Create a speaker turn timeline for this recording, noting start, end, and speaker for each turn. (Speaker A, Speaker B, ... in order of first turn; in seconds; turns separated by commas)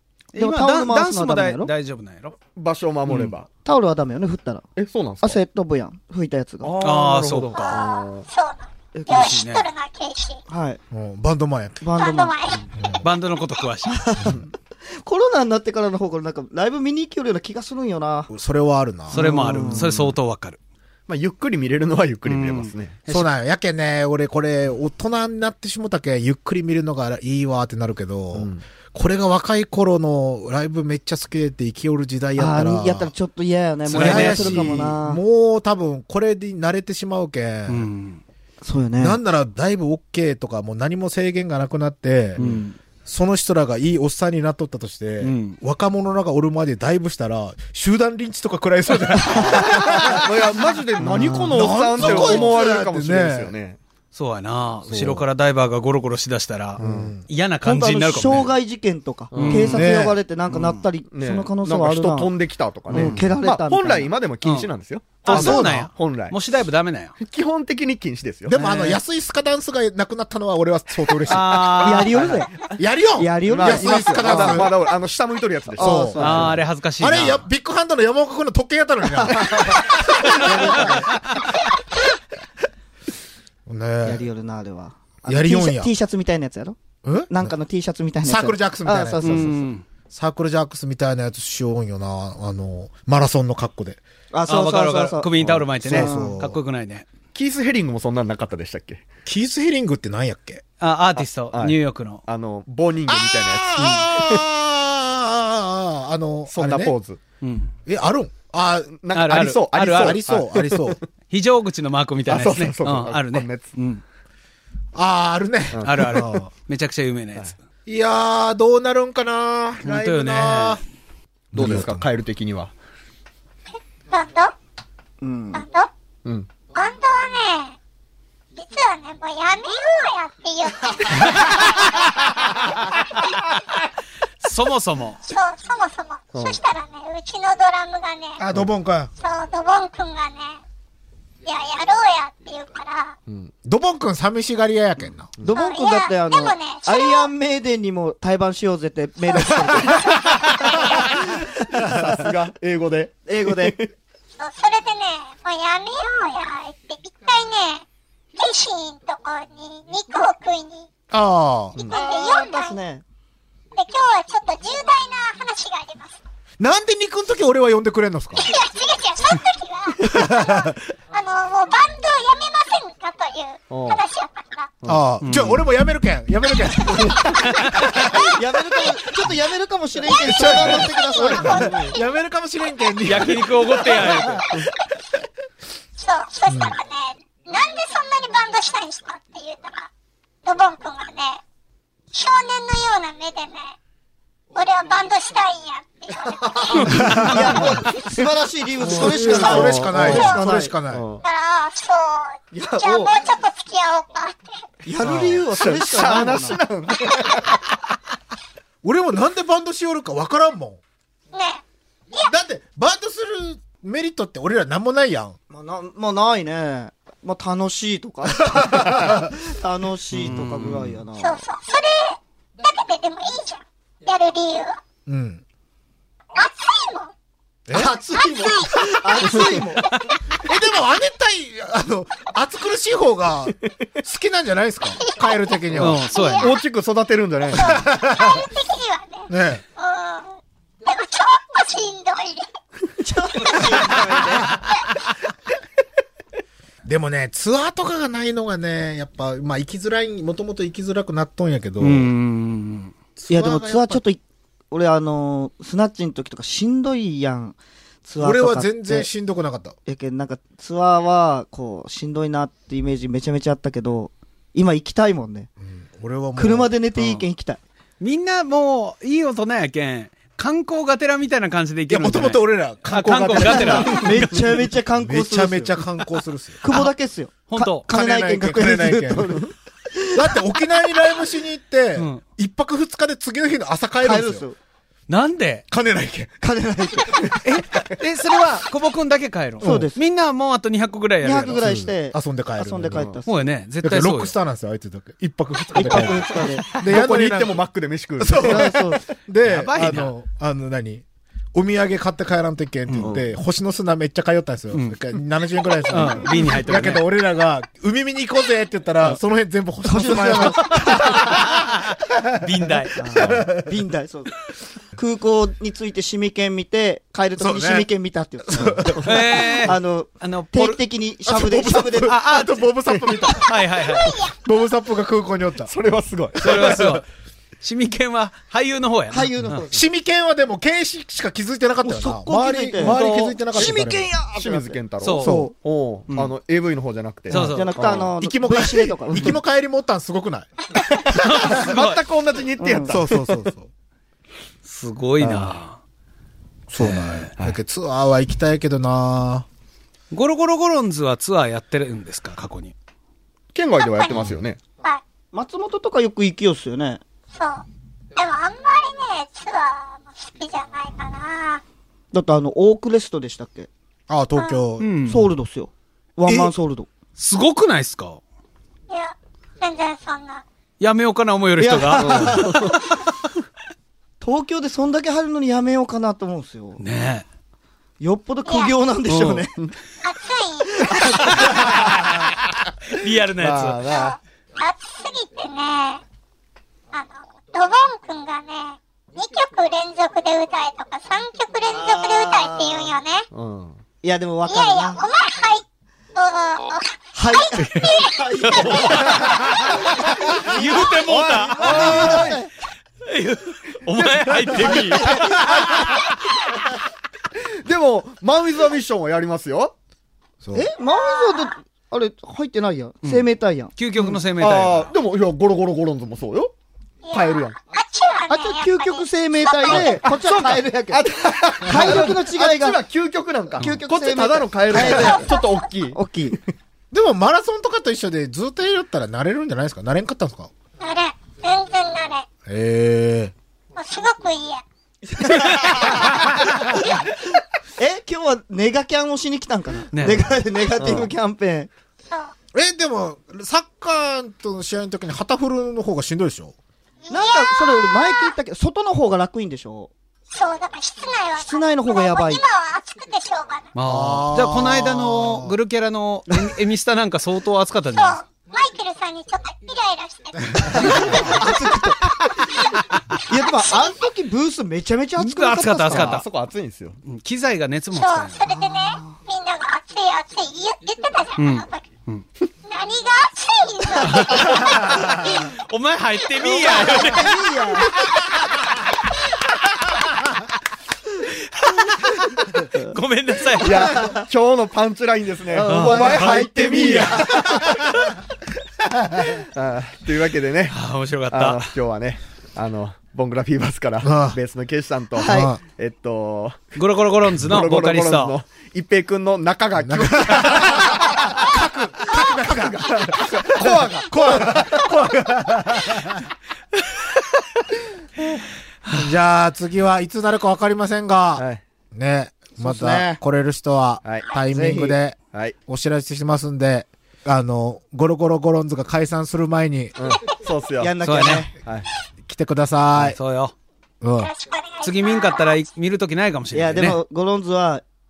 Speaker A: 0.3-2.4, Speaker B: 0.3-1.7, Speaker C: 2.5-3.5, Speaker A: 3.1-3.4, Speaker B: 3.6-4.6, Speaker C: 4.8-5.4, Speaker B: 5.2-6.7, Speaker C: 6.6-8.3, Speaker A: 6.8-7.8, Speaker D: 7.5-10.4, Speaker B: 8.9-9.4, Speaker A: 9.1-9.7, Speaker B: 10.5-10.8, Speaker E: 10.9-11.8, Speaker B: 11.8-12.3, Speaker D: 12.0-12.7, Speaker E: 12.7-13.1, Speaker A: 13.0-14.0, Speaker B: 13.9-18.3, Speaker E: 18.3-19.2, Speaker B: 19.1-19.9, Speaker A: 19.1-20.6, Speaker C: 19.7-20.1, Speaker C: 21.1-22.9, Speaker A: 22.2-23.3, Speaker E: 23.1-33.1, Speaker C: 28.3-28.6, Speaker B: 32.4-35.2, Speaker A: 33.9-34.8, Speaker E: 33.9-37.9, Speaker A: 37.7-38.2, Speaker B: 38.6-39.2, Speaker E: 39.0-42.4, Speaker A: 42.4-42.6, Speaker C: 42.4-42.6, Speaker B: 42.4-42.7, Speaker E: 43.0-50.3, Speaker A: 45.2-45.6, Speaker C: 49.5-53.8, Speaker B: 51.1-52.4, Speaker E: 51.5-53.5, Speaker A: 54.1-58.5, Speaker E: 54.9-55.2, Speaker C: 56.8-57.1, Speaker E: 56.8-57.2, Speaker B: 57.6-62.3, Speaker C: 59.3-59.8, Speaker A: 59.3-59.9, Speaker E: 59.7-60.2, Speaker C: 60.5-66.3, Speaker B: 62.9-64.1, Speaker A: 62.9-63.3, Speaker A: 64.4-64.7, Speaker A: 65.2-67.1, Speaker E: 65.2-65.9, Speaker C: 67.2-68.5, Speaker E: 68.5-72.1, Speaker A: 68.5-69.0, Speaker A: 71.2-72.5, Speaker B: 71.8-74.7, Speaker E: 72.8-74.8, Speaker C: 73.5-76.5, Speaker B: 75.8-76.6, Speaker E: 75.8-81.2, Speaker A: 76.2-77.5, Speaker B: 79.1-81.2, Speaker E: 83.7-84.2, Speaker B: 84.0-86.8, Speaker E: 85.3-85.9, Speaker E: 87.0-87.5, Speaker B: 87.3-89.6, Speaker E: 88.2-94.0, Speaker A: 89.2-89.8, Speaker B: 94.3-95.3, Speaker A: 94.5-97.1, Speaker C: 95.4-95.7, Speaker E: 95.8-96.6, Speaker B: 95.8-96.4, Speaker C: 97.3-99.0, Speaker E: 99.2-100.6, Speaker A: 100.8-102.2, Speaker C: 101.2-104.4, Speaker E: 103.1-106.9, Speaker C: 106.5-107.2, Speaker A: 107.4-107.7, Speaker E: 107.8-108.9, Speaker C: 108.9-111.0, Speaker A: 109.1-110.2, Speaker E: 109.8-111.0, Speaker A: 111.3-114.0, Speaker C: 112.3-113.7, Speaker E: 114.9-116.5, Speaker C: 115.7-116.2, Speaker A: 115.8-117.6, Speaker E: 117.8-120.8, Speaker A: 119.8-120.8, Speaker E: 121.5-122.0, Speaker C: 121.5-122.7, Speaker D: 124.1-124.5, Speaker B: 125.2-125.6, Speaker D: 125.5-125.9, Speaker C: 126.2-126.5, Speaker D: 126.7-127.8, Speaker D: 128.5-132.1, Speaker A: 134.4-135.2, Speaker D: 135.2-138.4, Speaker C: 136.3-136.6, Speaker E: 138.4-139.1, Speaker D: 139.2-140.6, Speaker D: 141.4-143.2, Speaker E: 143.6-145.3, Speaker B: 145.4-152.0, Speaker D: 145.5-147.3, Speaker E: 149.7-150.4, Speaker C: 151.7-153.9, Speaker B: 153.3-153.8, Speaker D: 154.4-157.8, Speaker D: 158.3-160.9, Speaker E: 161.1-161.8, Speaker D: 161.8-162.8, Speaker B: 161.9-163.0, Speaker D: 163.7-166.2, Speaker E: 166.6-168.5, Speaker D: 168.4-174.8, Speaker E: 170.1-170.8, Speaker C: 173.7-174.0, Speaker E: 174.8-178.1, Speaker A: 175.2-175.6, Speaker A: 177.4-177.9, Speaker B: 178.0-181.7, Speaker D: 180.2-182.0, Speaker E: 180.2-184.6, Speaker C: 181.6-181.9, Speaker A: 183.0-184.4, Speaker D: 186.0-189.9, Speaker E: 186.5-186.8, Speaker D: 190.4-191.4, Speaker D: 192.1-193.8, Speaker D: 194.5-197.3, Speaker B: 196.7-200.8, Speaker E: 196.9-197.7, Speaker C: 198.8-201.2, Speaker E: 198.8-201.0, Speaker D: 200.1-200.4, Speaker D: 201.2-204.7, Speaker B: 202.5-203.1, Speaker B: 204.8-206.6, Speaker C: 205.0-207.4, Speaker D: 207.0-207.4, Speaker E: 208.8-210.8, Speaker D: 211.3-211.6, Speaker E: 212.1-215.3, Speaker B: 215.5-221.4, Speaker E: 218.5-219.3, Speaker A: 220.2-221.0, Speaker D: 221.2-224.8, Speaker E: 225.1-225.4, Speaker D: 226.3-227.1, Speaker E: 227.7-229.3, Speaker B: 227.7-228.0, Speaker D: 228.1-229.2, Speaker B: 228.8-229.9, Speaker C: 229.3-229.6, Speaker D: 229.8-230.4, Speaker E: 230.4-236.0, Speaker D: 235.0-235.3, Speaker C: 235.7-237.8, Speaker A: 235.8-236.6, Speaker D: 236.1-236.6, Speaker D: 237.5-242.5, Speaker E: 237.6-238.4, Speaker E: 239.3-239.6, Speaker B: 243.0-244.5, Speaker E: 246.8-252.1, Speaker A: 251.8-252.9, Speaker E: 253.2-254.0, Speaker B: 253.3-259.1, Speaker E: 258.2-259.8, Speaker B: 259.9-265.5, Speaker E: 265.6-266.7, Speaker B: 266.4-267.6, Speaker A: 267.0-267.2, Speaker A: 268.0-274.6, Speaker E: 271.9-273.4, Speaker C: 272.9-274.2, Speaker B: 273.5-275.8, Speaker E: 275.0-276.6, Speaker B: 276.6-280.2, Speaker A: 277.5-277.9, Speaker E: 277.9-279.4, Speaker E: 280.1-284.4, Speaker A: 281.9-282.2, Speaker B: 284.0-284.6, Speaker A: 285.1-285.6, Speaker E: 285.7-286.3, Speaker B: 286.4-287.3, Speaker A: 287.4-291.6, Speaker E: 289.6-289.9, Speaker B: 289.6-290.0, Speaker B: 291.2-293.3, Speaker E: 291.6-293.1, Speaker C: 292.9-293.2, Speaker A: 293.2-294.3, Speaker E: 293.8-297.6, Speaker B: 295.7-296.6, Speaker C: 296.4-298.8, Speaker E: 298.2-311.5, Speaker B: 298.4-299.1, Speaker A: 299.4-300.1, Speaker C: 303.0-303.3, Speaker A: 304.7-305.0, Speaker A: 305.9-307.0, Speaker B: 309.8-311.3, Speaker A: 310.9-313.0, Speaker B: 313.0-314.3, Speaker E: 313.1-313.7, Speaker C: 313.2-313.4, Speaker B: 314.9-322.1, Speaker E: 317.4-317.9, Speaker E: 318.4-319.1, Speaker A: 319.0-320.8, Speaker E: 321.3-325.7, Speaker A: 322.0-322.6, Speaker C: 322.9-323.3, Speaker A: 323.2-324.1, Speaker D: 323.9-324.4, Speaker C: 325.6-327.0, Speaker A: 326.4-327.1, Speaker E: 326.5-326.9, Speaker A: 327.6-329.6, Speaker B: 329.1-329.8, Speaker E: 329.7-334.1, Speaker B: 331.8-335.5, Speaker C: 332.8-338.1, Speaker A: 335.0-335.5, Speaker E: 335.2-335.5, Speaker B: 337.3-339.4, Speaker A: 337.3-337.7, Speaker E: 337.5-340.5, Speaker A: 341.1-342.0, Speaker C: 341.1-343.3, Speaker B: 342.6-343.0, Speaker E: 342.9-343.7, Speaker A: 344.6-345.8, Speaker E: 346.7-349.4, Speaker A: 346.8-347.3, Speaker A: 350.1-352.7, Speaker C: 353.5-354.6, Speaker D: 353.8-354.2, Speaker B: 355.3-357.0, Speaker D: 357.3-357.6, Speaker D: 358.1-361.6, Speaker B: 362.1-363.7, Speaker E: 364.1-364.9, Speaker D: 364.4-364.6, Speaker A: 364.8-365.3, Speaker B: 365.1-366.9, Speaker A: 367.2-368.2, Speaker D: 368.9-370.4, Speaker A: 370.8-372.8, Speaker B: 371.6-372.8, Speaker C: 372.0-372.8, Speaker B: 374.2-376.8, Speaker A: 376.8-377.2, Speaker B: 378.0-379.5, Speaker D: 378.4-378.8, Speaker A: 379.1-379.4, Speaker D: 380.0-381.4, Speaker B: 380.6-381.8, Speaker A: 381.3-383.8, Speaker C: 383.4-384.2, Speaker D: 383.8-386.0, Speaker D: 386.9-393.3, Speaker B: 391.7-392.9, Speaker C: 393.3-393.8, Speaker B: 394.0-395.0, Speaker D: 394.4-399.2, Speaker B: 397.1-400.7, Speaker A: 397.6-399.5, Speaker D: 400.0-401.3, Speaker A: 400.4-402.3, Speaker C: 400.6-402.4, Speaker B: 401.5-402.5, Speaker E: 401.8-402.2, Speaker A: 403.0-406.0, Speaker C: 403.9-405.4, Speaker B: 404.7-405.9, Speaker C: 407.4-409.7, Speaker E: 410.4-410.7, Speaker B: 410.5-413.7, Speaker D: 410.9-411.5, Speaker A: 413.0-414.9, Speaker C: 414.0-416.5, Speaker D: 417.0-420.0, Speaker C: 417.1-417.6, Speaker B: 418.3-422.8, Speaker C: 419.7-426.0, Speaker B: 423.6-425.4, Speaker D: 424.7-425.7, Speaker B: 425.9-426.4, Speaker E: 426.9-430.5, Speaker D: 430.8-432.3, Speaker E: 432.4-433.3, Speaker D: 433.7-434.6, Speaker B: 435.2-436.0, Speaker A: 435.3-435.8, Speaker B: 437.8-441.7, Speaker A: 439.9-440.3, Speaker C: 440.8-441.1, Speaker E: 442.5-446.5, Speaker D: 447.1-448.3, Speaker B: 447.1-449.9, Speaker D: 450.3-453.8, Speaker B: 451.4-452.4, Speaker A: 453.7-458.2, Speaker E: 453.9-455.6, Speaker D: 457.9-461.4, Speaker B: 460.7-462.1, Speaker B: 463.2-466.2, Speaker D: 463.6-463.9, Speaker A: 465.2-466.2, Speaker C: 465.9-467.0, Speaker A: 467.1-468.4, Speaker D: 467.9-471.9, Speaker B: 468.5-469.2, Speaker A: 471.4-472.2, Speaker D: 472.6-475.2, Speaker A: 474.1-478.2, Speaker B: 476.4-478.1, Speaker A: 481.3-484.1, Speaker C: 483.6-487.5, Speaker B: 485.5-487.8, Speaker A: 485.6-487.6, Speaker C: 489.3-490.7, Speaker A: 490.7-491.8, Speaker C: 491.3-496.7, Speaker E: 494.0-494.4, Speaker B: 495.2-495.5, Speaker E: 495.2-495.6, Speaker A: 496.7-498.3, Speaker C: 497.4-501.4, Speaker E: 499.8-506.3, Speaker C: 502.1-504.8, Speaker E: 508.9-519.9, Speaker C: 511.4-511.6, Speaker B: 512.6-513.2, Speaker B: 514.5-515.0, Speaker C: 514.8-515.5, Speaker C: 520.0-520.9, Speaker D: 520.1-520.4, Speaker B: 520.8-521.5, Speaker A: 521.0-521.5, Speaker E: 522.2-523.2, Speaker A: 523.0-523.5, Speaker E: 524.0-524.3, Speaker D: 524.2-525.6, Speaker A: 524.8-527.0, Speaker B: 526.5-527.8